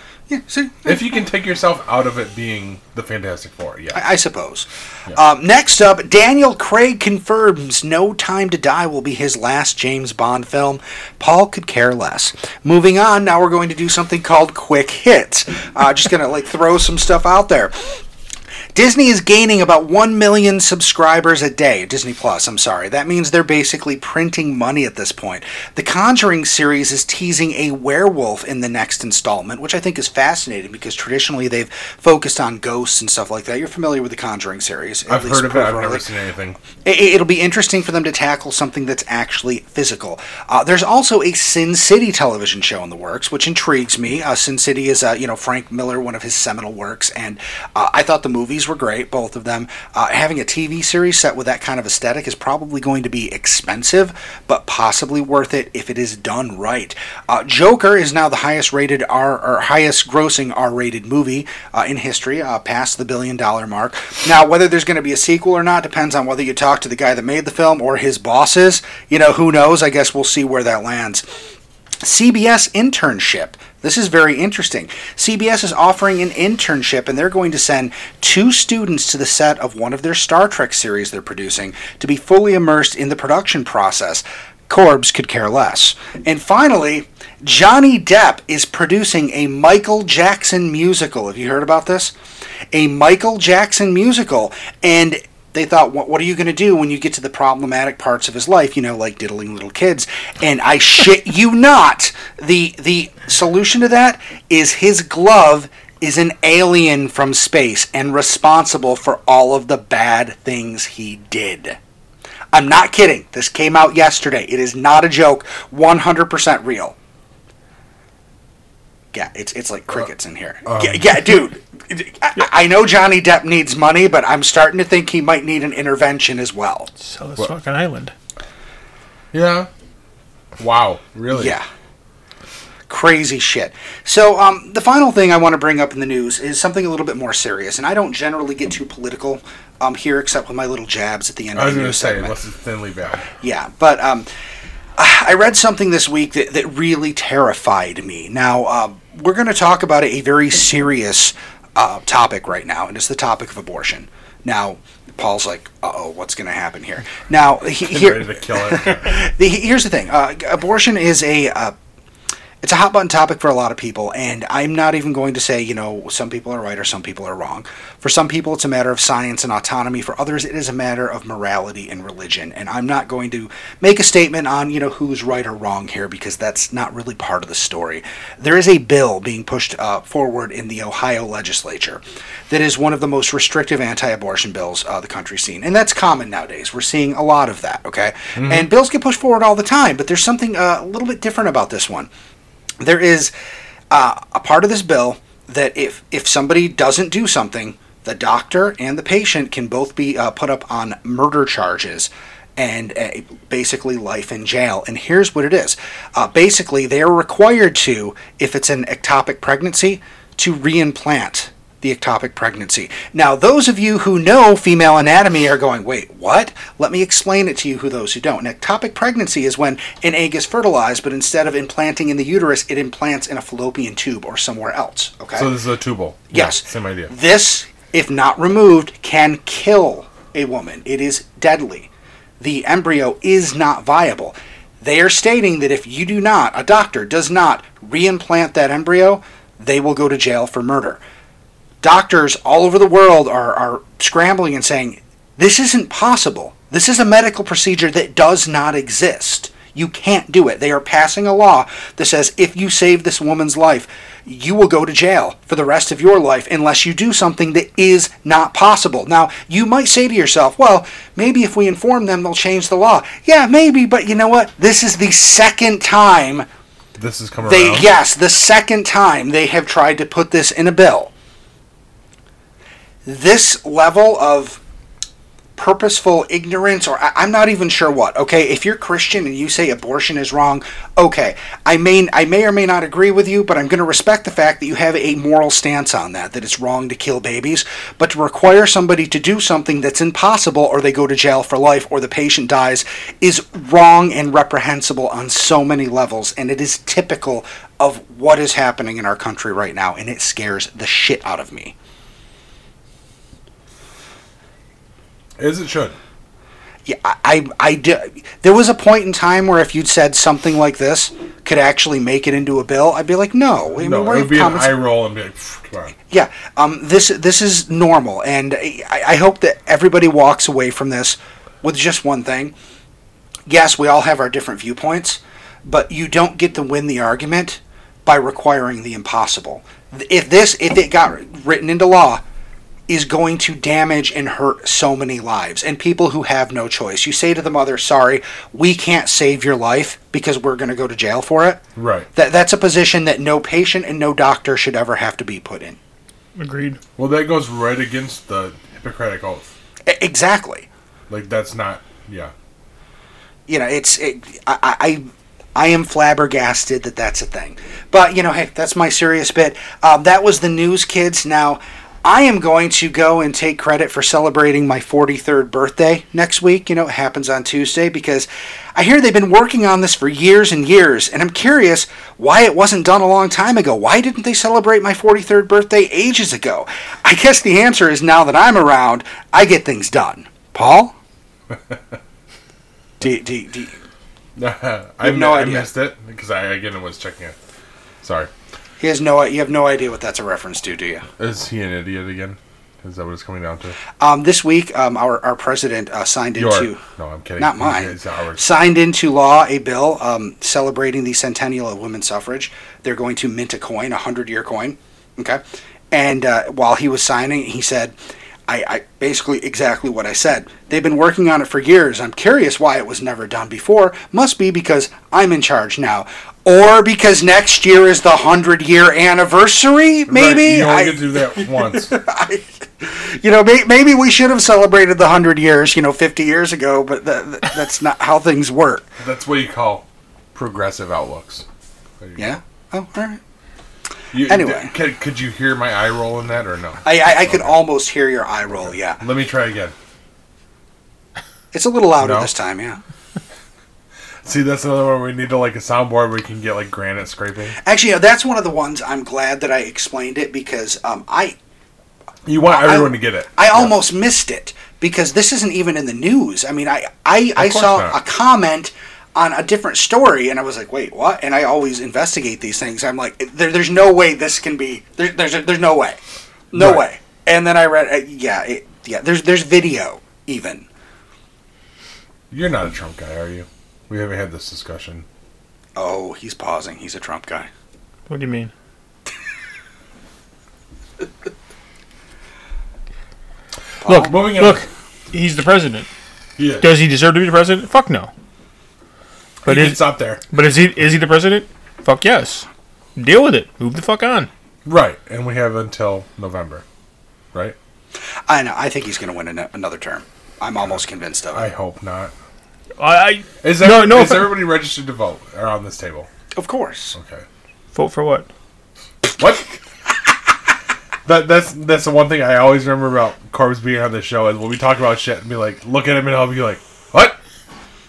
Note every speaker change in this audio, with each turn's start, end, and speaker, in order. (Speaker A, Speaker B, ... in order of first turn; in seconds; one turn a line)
Speaker A: 0.3-1.0
Speaker B: 0.8-4.0
Speaker A: 3.9-18.0
Speaker A: 18.7-36.0
Speaker B: 35.1-36.6
Speaker A: 36.8-71.3
Speaker A: 72.0-92.1
Speaker A: 92.7-111.8
Speaker A: 112.5-116.9
Speaker A: 119.1-126.9
Speaker B: 120.6-121.2
Speaker C: 127.0-128.1
Speaker B: 129.3-129.7
Speaker B: 130.6-131.6
Speaker A: 131.3-131.7
Speaker A: 132.9-142.4
Speaker B: 141.5-143.3
Speaker A: 143.4-144.3
Speaker A: 145.0-161.7
Speaker B: 157.8-159.2
Speaker A: 162.6-192.1
Speaker B: 188.3-188.7
Speaker A: 192.8-193.3
Speaker A: 193.9-225.5
Speaker B: 225.3-227.1
Speaker A: 226.3-231.9
Speaker A: 232.4-241.0
Speaker A: 241.8-266.5
Speaker B: 267.0-267.9
Speaker A: 267.4-271.1
Speaker A: 273.1-274.6
Speaker A: 275.6-301.7
Speaker B: 305.4-306.0
Speaker A: 306.8-314.8
Speaker B: 313.7-315.9
Speaker A: 316.1-322.5
Speaker A: 323.5-332.2
Speaker A: 332.9-341.6
Speaker B: 341.8-342.1
Speaker A: 342.1-345.8
Speaker C: 346.4-346.8
Speaker B: 346.9-349.5
Speaker A: 349.9-350.7
Speaker B: 351.1-352.3
Speaker A: 353.5-380.9
Speaker B: 381.5-381.8
Speaker A: 383.0-383.8
Speaker B: 384.4-387.4
Speaker A: 385.0-385.7
Speaker B: 388.0-388.3
Speaker A: 388.8-391.1
Speaker B: 391.2-393.8
Speaker A: 394.0-396.8
Speaker B: 396.4-398.5
Speaker A: 397.4-407.9
Speaker A: 408.5-428.9
Speaker B: 420.1-422.0
Speaker B: 429.0-431.4
Speaker B: 432.0-432.4
Speaker A: 432.2-433.2
Speaker B: 434.1-437.6
Speaker A: 434.2-434.7
Speaker A: 436.8-439.0
Speaker B: 438.6-439.7
Speaker A: 441.5-442.8
Speaker B: 442.0-442.3
Speaker B: 444.2-447.6
Speaker A: 447.6-451.4
Speaker B: 452.2-453.8
Speaker A: 452.4-466.0
Speaker B: 457.4-458.0
Speaker A: 466.5-470.7
Speaker B: 466.5-466.8
Speaker B: 472.3-475.0
Speaker A: 475.8-477.5
Speaker C: 478.1-478.5
Speaker A: 483.8-484.1
Speaker C: 483.8-485.9
Speaker B: 483.9-484.7
Speaker B: 486.4-486.8
Speaker C: 486.6-488.1
Speaker B: 489.4-490.2
Speaker C: 489.4-494.3
Speaker B: 494.6-496.6
Speaker A: 498.3-501.5
Speaker B: 501.3-502.1
Speaker C: 502.8-504.4
Speaker B: 503.4-506.1
Speaker A: 506.3-506.9
Speaker B: 506.9-507.2
Speaker C: 507.7-508.3
Speaker B: 509.0-509.6
Speaker B: 511.1-517.2